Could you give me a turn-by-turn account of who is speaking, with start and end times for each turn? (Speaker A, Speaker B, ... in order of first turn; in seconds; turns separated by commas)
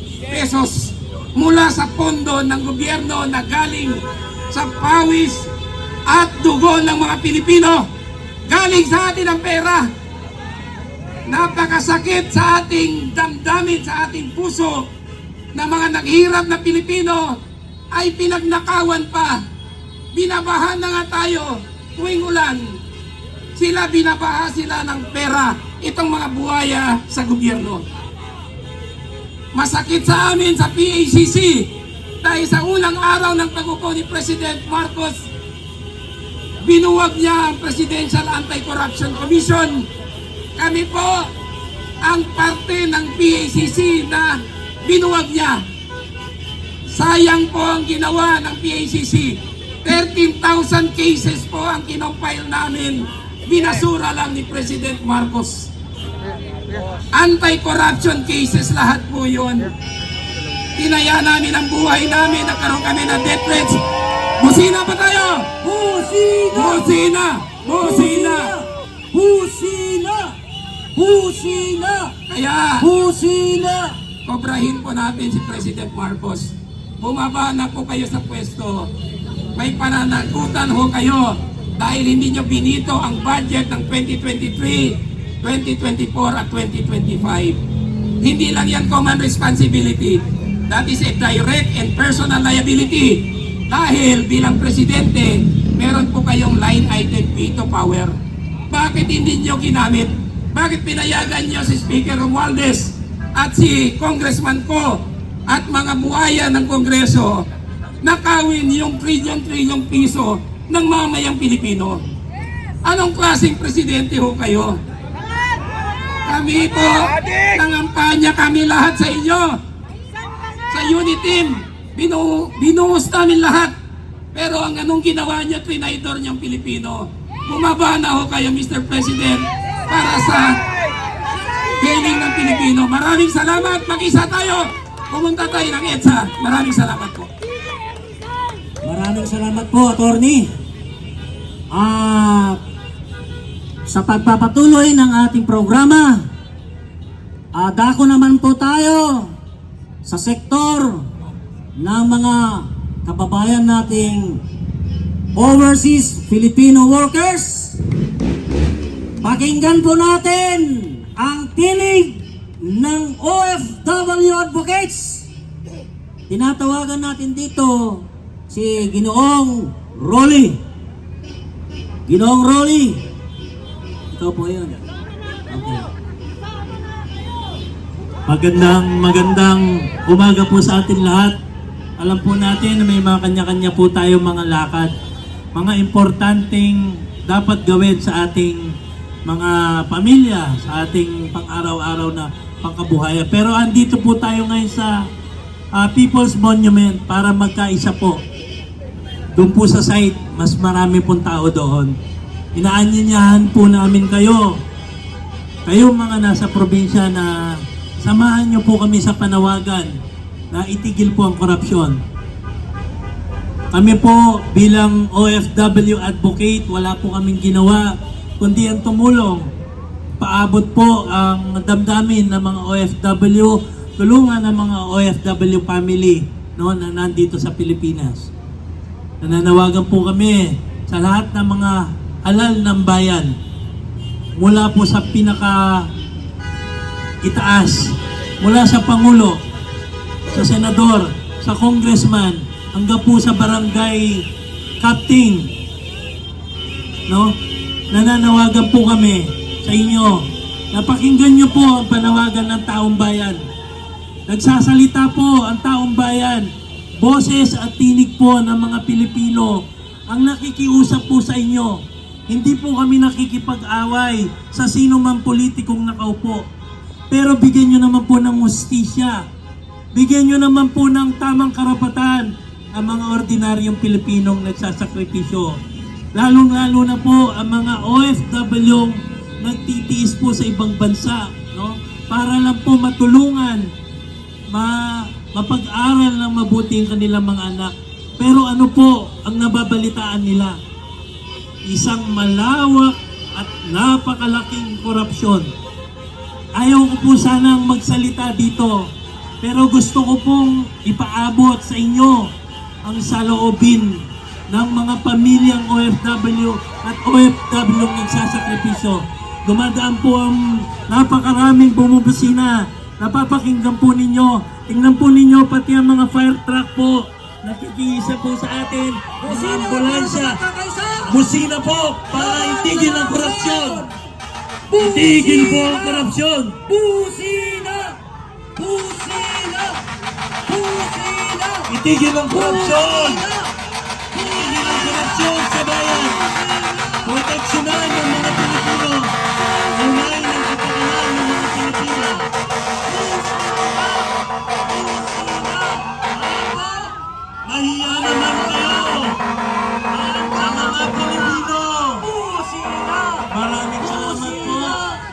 Speaker A: 0.3-5.5, Speaker A: 6.0-7.9, Speaker A: 8.5-9.9, Speaker A: 11.2-14.9, Speaker A: 15.5-17.4, Speaker A: 17.9-19.4, Speaker A: 20.1-22.8, Speaker A: 23.5-27.8, Speaker A: 29.5-35.2, Speaker A: 36.6-39.9, Speaker A: 40.5-41.3, Speaker A: 42.0-45.6, Speaker A: 46.9-55.7, Speaker A: 57.1-59.7, Speaker A: 60.8-63.8, Speaker A: 64.4-65.5, Speaker B: 65.6-67.0, Speaker A: 66.5-68.5, Speaker B: 67.8-70.3, Speaker B: 70.9-72.1, Speaker A: 72.3-72.9, Speaker B: 72.8-74.0, Speaker A: 74.2-78.9, Speaker A: 79.5-87.6, Speaker A: 88.2-98.2, Speaker A: 98.7-107.5, Speaker A: 108.0-112.0, Speaker A: 112.8-114.8, Speaker A: 116.2-119.6, Speaker A: 120.7-123.7, Speaker A: 124.3-130.6, Speaker A: 131.8-137.3, Speaker B: 138.8-140.5, Speaker B: 141.7-142.6, Speaker B: 143.9-146.3, Speaker B: 147.5-149.3, Speaker B: 150.0-151.1, Speaker B: 151.8-154.4, Speaker B: 155.3-157.8, Speaker B: 159.2-165.3, Speaker B: 166.3-170.6, Speaker B: 172.1-173.0, Speaker B: 174.1-174.8, Speaker B: 175.5-175.9, Speaker C: 178.3-181.3, Speaker C: 182.0-184.9, Speaker C: 185.5-188.6, Speaker C: 189.2-195.1, Speaker C: 195.7-198.2, Speaker C: 199.3-201.9, Speaker C: 202.5-204.6, Speaker C: 205.7-207.3, Speaker C: 208.0-209.9, Speaker C: 210.5-212.0, Speaker C: 213.7-219.5, Speaker C: 220.2-228.3, Speaker C: 229.2-233.3, Speaker C: 234.4-235.9, Speaker C: 237.2-239.4, Speaker C: 240.3-244.2, Speaker C: 244.8-245.5, Speaker C: 247.1-247.3, Speaker C: 247.9-253.4, Speaker C: 254.3-259.6, Speaker C: 260.1-261.8, Speaker C: 262.3-266.4, Speaker C: 267.1-269.2, Speaker C: 269.9-275.5, Speaker C: 276.1-283.6, Speaker C: 284.5-290.5, Speaker C: 291.7-295.5, Speaker C: 296.6-298.8, Speaker C: 299.4-302.3, Speaker C: 302.8-304.0, Speaker C: 304.5-320.4, Speaker B: 319.2-321.2, Speaker C: 321.1-323.8, Speaker B: 322.1-323.9, Speaker B: 324.7-326.1, Speaker C: 324.8-326.6, Speaker B: 326.7-328.0, Speaker B: 328.6-329.8, Speaker B: 330.5-331.7, Speaker C: 331.7-333.2, Speaker B: 332.3-333.5, Speaker B: 334.1-335.3, Speaker C: 334.2-336.2, Speaker B: 335.9-337.1, Speaker C: 337.0-339.1, Speaker B: 339.5-340.1, Speaker C: 339.7-342.3, Speaker B: 342.9-344.1, Speaker B: 344.7-347.0, Speaker C: 347.4-349.2, Speaker B: 348.1-349.0, Speaker B: 349.9-351.3, Speaker C: 350.0-352.1, Speaker B: 352.0-353.3, Speaker C: 353.3-354.8, Speaker B: 353.8-355.0